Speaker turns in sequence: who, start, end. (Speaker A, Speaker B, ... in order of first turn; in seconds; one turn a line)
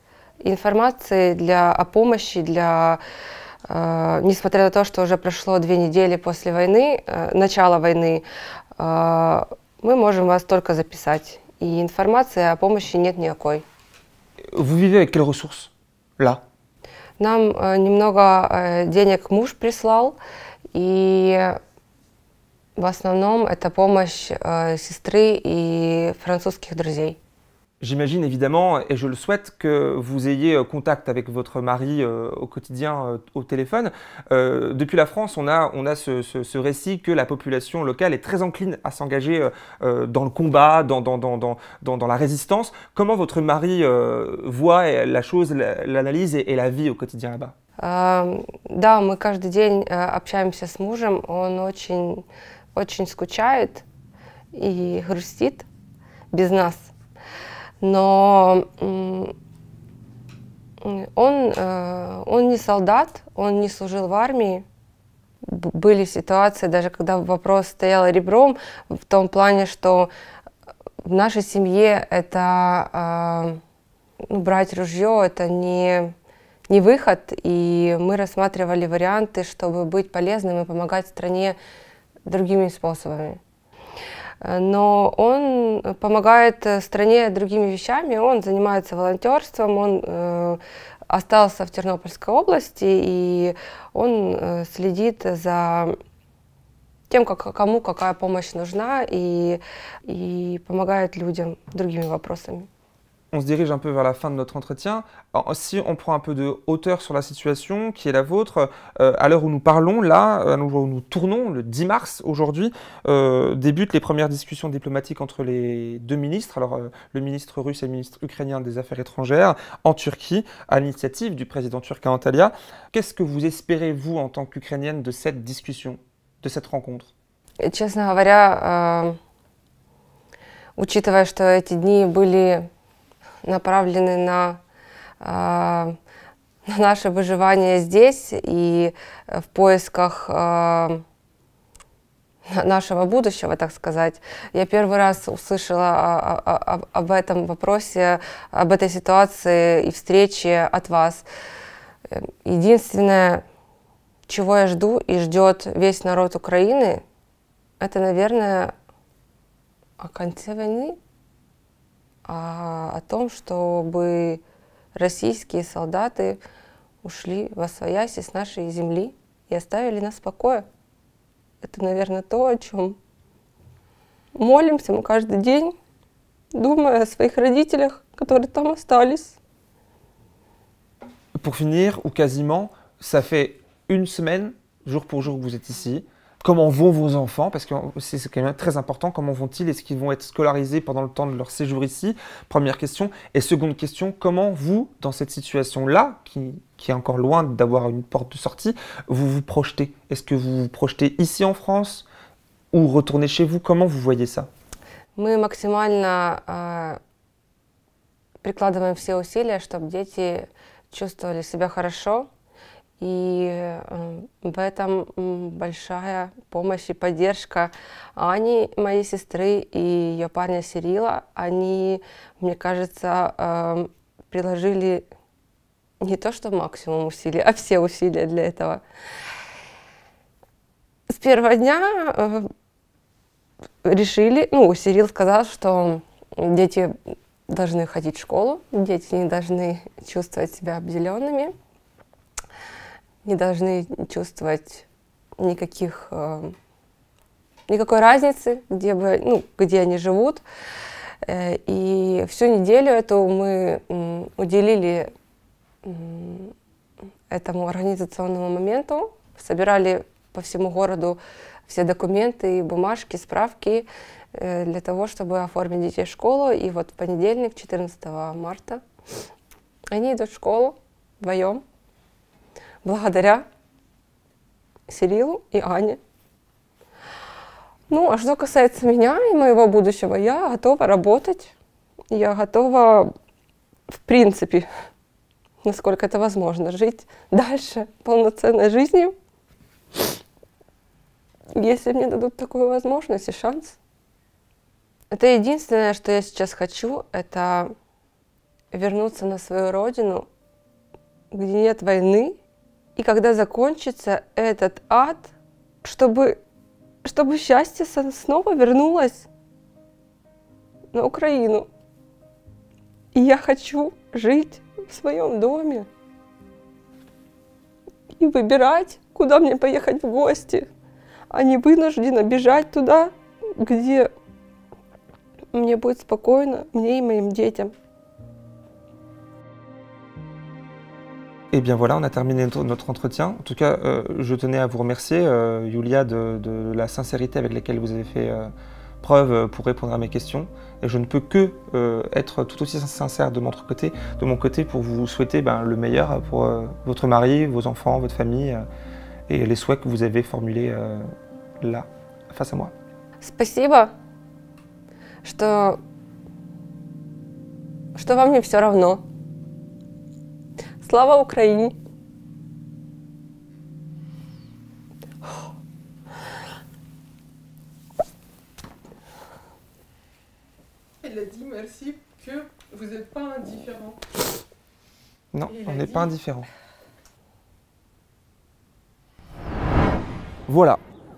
Speaker A: 0.4-3.0
Speaker A: 3.7-8.2
Speaker A: 8.8-13.6
Speaker B: 14.5-16.4
Speaker A: 17.2-20.1
Speaker A: 20.7-21.6
Speaker A: 22.8-27.2
Speaker B: 27.8-47.5
Speaker A: 47.8-52.2
Speaker A: 52.7-53.8
Speaker A: 54.5-55.6
Speaker A: 56.3-56.9
Speaker A: 57.8-59.3
Speaker A: 60.8-64.6
Speaker A: 65.4-70.1
Speaker A: 71.0-73.6
Speaker A: 74.3-76.1
Speaker A: 76.7-81.5
Speaker A: 82.2-83.4
Speaker A: 84.4-95.9
Speaker A: 97.1-102.7
Speaker B: 103.3-127.1
Speaker A: 127.6-129.2
Speaker A: 130.8-132.7
Speaker A: 133.4-134.6
Speaker A: 135.2-135.9
Speaker A: 136.7-141.0
Speaker A: 142.5-151.2
Speaker A: 152.1-153.4
Speaker A: 154.3-157.0
Speaker A: 157.8-158.7
Speaker A: 160.0-161.0
Speaker A: 162.2-164.4
Speaker A: 164.9-166.4
Speaker A: 167.0-170.7
Speaker A: 171.6-173.0
Speaker A: 174.4-175.7
Speaker A: 176.5-179.4
Speaker B: 181.3-202.1
Speaker B: 202.7-204.5
Speaker A: 205.2-207.0
Speaker A: 208.4-212.3
Speaker A: 213.0-225.0
Speaker A: 226.0-228.8
Speaker A: 231.1-232.5
Speaker A: 233.8-236.9
Speaker A: 237.5-241.5
Speaker A: 243.2-244.8
Speaker A: 245.4-246.5
Speaker A: 247.7-250.4
Speaker A: 251.2-255.1
Speaker A: 255.8-256.5
Speaker A: 257.3-268.8
Speaker A: 269.9-271.6
Speaker A: 272.8-273.4
Speaker A: 274.9-276.0
Speaker A: 277.9-281.5
Speaker A: 282.1-283.1
Speaker A: 283.9-284.7
Speaker A: 285.6-289.1
Speaker A: 291.5-293.8
Speaker A: 295.1-297.7
Speaker A: 298.7-300.2
Speaker A: 301.3-302.4
Speaker A: 302.9-306.4
Speaker A: 307.0-309.3
Speaker A: 310.9-311.7
Speaker A: 313.1-315.9
Speaker A: 318.2-320.7
Speaker A: 321.3-324.1
Speaker A: 325.5-327.7
Speaker B: 331.5-338.5
Speaker B: 339.0-348.6
Speaker B: 349.3-351.1
Speaker B: 351.6-352.7
Speaker A: 353.2-353.9
Speaker A: 355.2-355.8
Speaker A: 357.9-359.0
Speaker A: 360.8-361.7
Speaker C: 371.0-374.0
Speaker B: 375.3-376.5
Speaker C: 375.5-376.1
Speaker B: 380.5-380.8